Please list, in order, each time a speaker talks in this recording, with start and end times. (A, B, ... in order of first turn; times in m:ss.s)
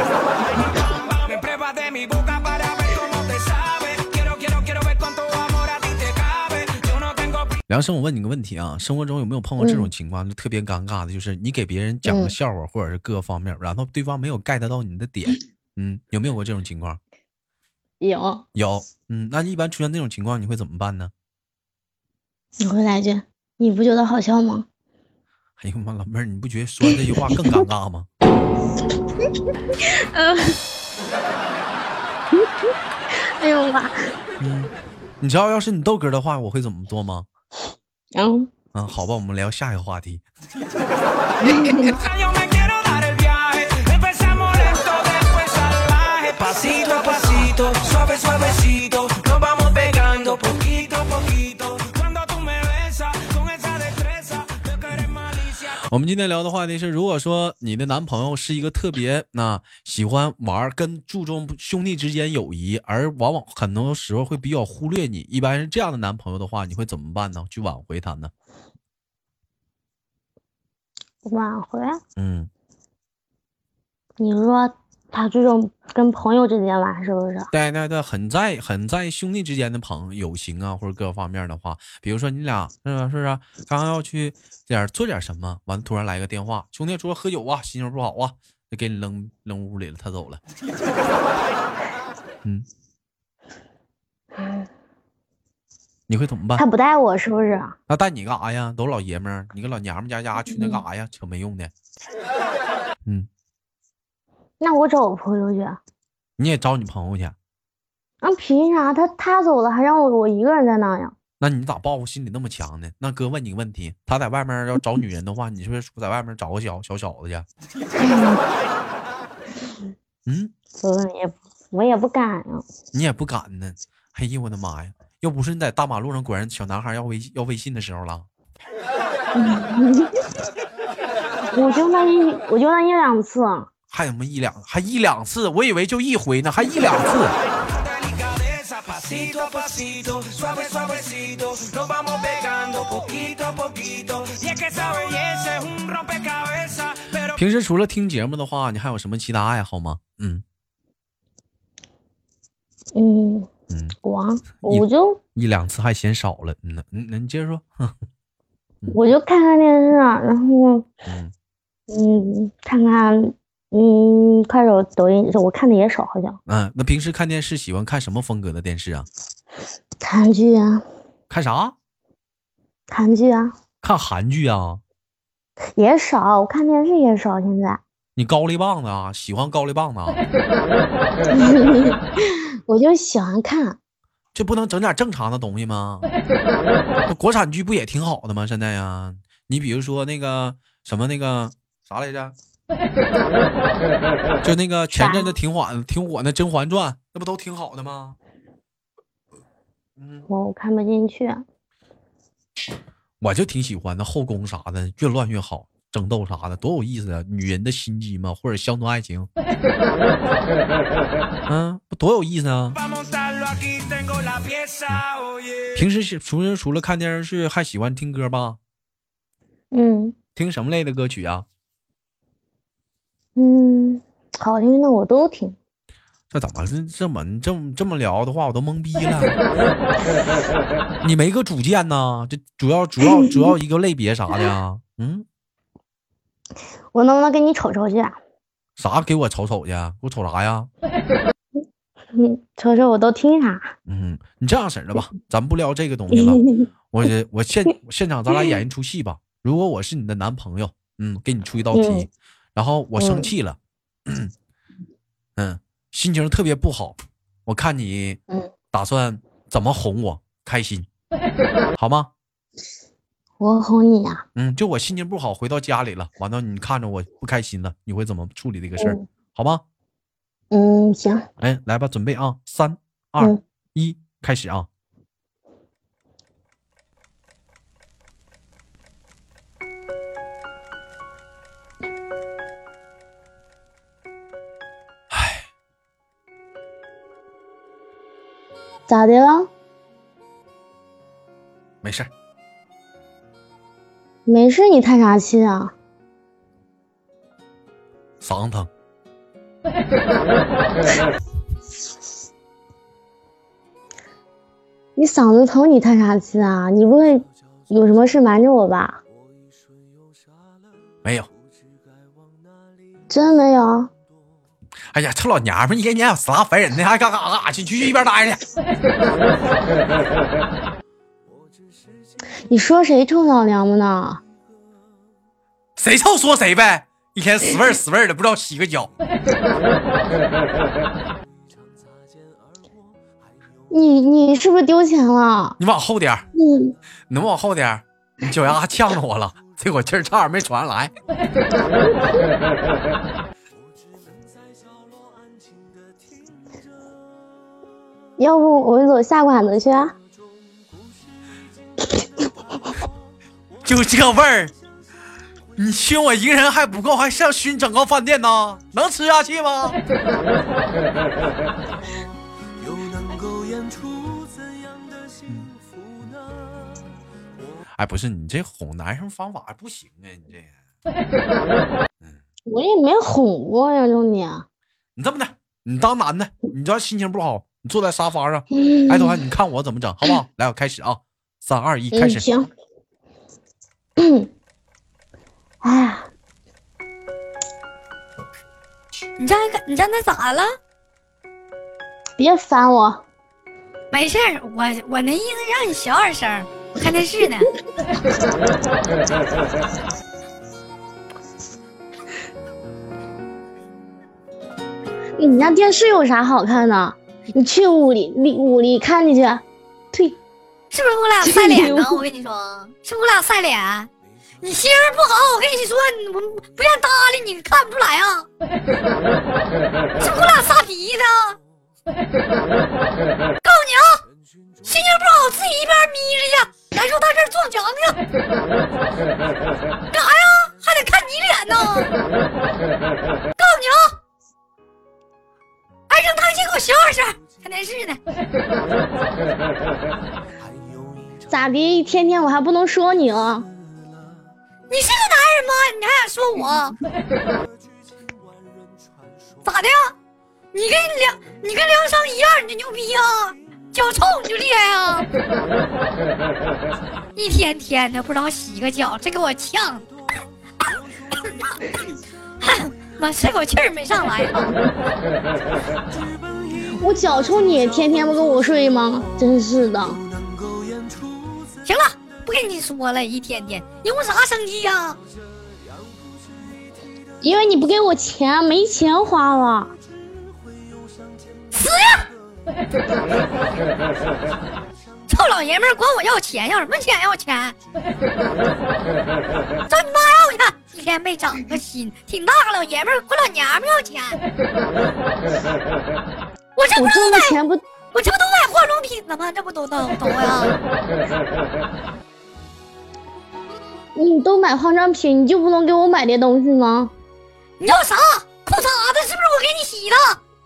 0:00.5-0:07.6 A
0:07.7-0:17.0 B
0:09.6-0:09.9 C
0:12.1-0:12.3 C
0:18.0-0:18.4 C
0:18.6-0:21.1 B
0:22.6-0:24.7 C
0:25.6-0:28.1 B
0:29.8-0:30.6 C
0:33.1-0:34.1 C
0:34.4-0:37.3 B
0:38.1-0:38.5 C
0:38.7-0:40.2 B
0:41.4-0:42.0 C
0:41.4-0:41.8 B
0:41.8-0:55.8 A
0:55.7-1:08.3 B
1:11.2-1:12.0 C
1:12.2-1:12.5 B
1:14.2-1:17.5 C
1:17.5-1:30.4 B
1:36.1-1:36.6 B
1:36.6-1:37.8 C
1:37.9-1:41.7 B
1:40.5-1:40.8 C
1:44.6-1:45.8 C
1:46.4-1:47.4 B
1:48.2-1:51.2 C
1:51.4-1:57.5 B
1:57.9-1:58.4 C
2:00.3-2:00.5 B
2:00.8-2:02.6 C
2:02.9-2:08.3 B
2:09.4-2:10.2 C
2:11.5-2:13.7 C
2:13.9-2:17.4 B
2:17.7-2:27.4 A
2:27.3-2:30.4 B
2:33.0-2:33.5 C
2:33.7-2:34.0 B
2:34.0-2:35.2 C
2:34.6-2:38.0 B
2:38.9-2:40.9 C
2:41.1-2:41.3 B
2:41.9-2:46.4 C
2:46.5-2:49.1 B
2:50.0-2:50.8 C
2:51.3-2:51.8 B
2:52.9-2:53.5 C
2:53.8-2:54.8 B
2:55.8-2:57.8 C
2:58.2-3:00.2 B
3:01.3-3:03.8 C
3:04.3-3:06.1 B
3:07.1-3:12.4 B
3:14.4-3:18.2 B
3:14.9-3:15.3 C
3:20.0-3:20.2 B
3:20.3-3:21.4 C
3:23.2-3:29.3 B
3:31.5-3:32.8 B
3:32.8-3:35.8 A
3:35.8-3:38.6 B
3:39.7-3:40.2 C
3:40.4-3:41.5 B
3:43.4-3:45.6 C
3:46.3-3:49.4 B
3:51.0-3:55.2 B
3:56.9-3:58.2 C
3:58.8-4:00.7 B
4:02.1-4:03.7 C
4:03.9-4:14.3 B
4:06.1-4:06.7 C
4:11.7-4:12.1 C
4:13.0-4:13.3 C
4:15.4-4:18.2 B
4:18.7-4:20.9 B
4:21.8-4:22.1 B
4:23.4-4:24.2 C
4:24.4-4:29.6 B
4:28.8-4:29.0 C
4:30.5-4:31.3 C
4:31.4-4:34.7 B
4:45.1-4:45.5 B
4:48.9-4:49.5 C
4:51.8-4:52.1 B
4:54.3-4:55.7 C
4:58.2-4:58.7 B
5:05.0-5:09.0 C
5:13.1-5:13.9 C
5:14.9-5:18.4 B
5:22.5-5:24.2 C
5:25.8-5:28.9 B
5:33.7-5:35.6 C
5:35.6-5:36.3 B
5:36.4-5:36.8 C
5:37.1-5:40.9 B
5:48.2-5:50.0 C
5:53.6-5:54.5 B
5:55.6-5:59.8 B
6:02.6-6:06.4 D
6:07.7-6:10.5 B
6:12.5-6:14.5 C
6:15.0-6:22.3 B
6:18.5-6:19.2 C
6:21.9-6:22.5 C
6:24.0-6:24.3 C
6:25.6-6:26.1 C
6:29.2-6:30.6 E
6:32.2-6:33.0 C
6:33.9-6:37.5 E
6:45.2-6:50.2 C
6:50.7-6:53.9 E
6:51.2-6:52.0 C
6:54.4-6:58.3 E
7:00.0-7:01.4 E
7:03.4-7:04.0 E
7:04.6-7:08.0 E
7:09.9-7:11.9 E
7:13.4-7:14.0 E
7:15.9-7:18.0 E
7:21.3-7:23.5 C
7:24.7-7:26.8 E
7:29.4-7:29.9 E
7:30.5-7:35.1 E
7:37.2-7:39.9 E
7:41.2-7:41.8 E
7:42.4-7:44.6 E
7:45.9-7:49.0 D
7:46.8-7:50.0 C
7:49.9-7:51.6 D
7:51.6-7:55.0 E
7:57.2-7:59.7 C
8:01.5-8:02.1 E
8:05.1-8:07.6 E
8:09.7-8:14.2 E
8:16.6-8:17.4 E
8:16.7-8:17.6 C
8:17.9-8:20.6 E
8:24.0-8:26.9 C
8:27.6-8:30.2 E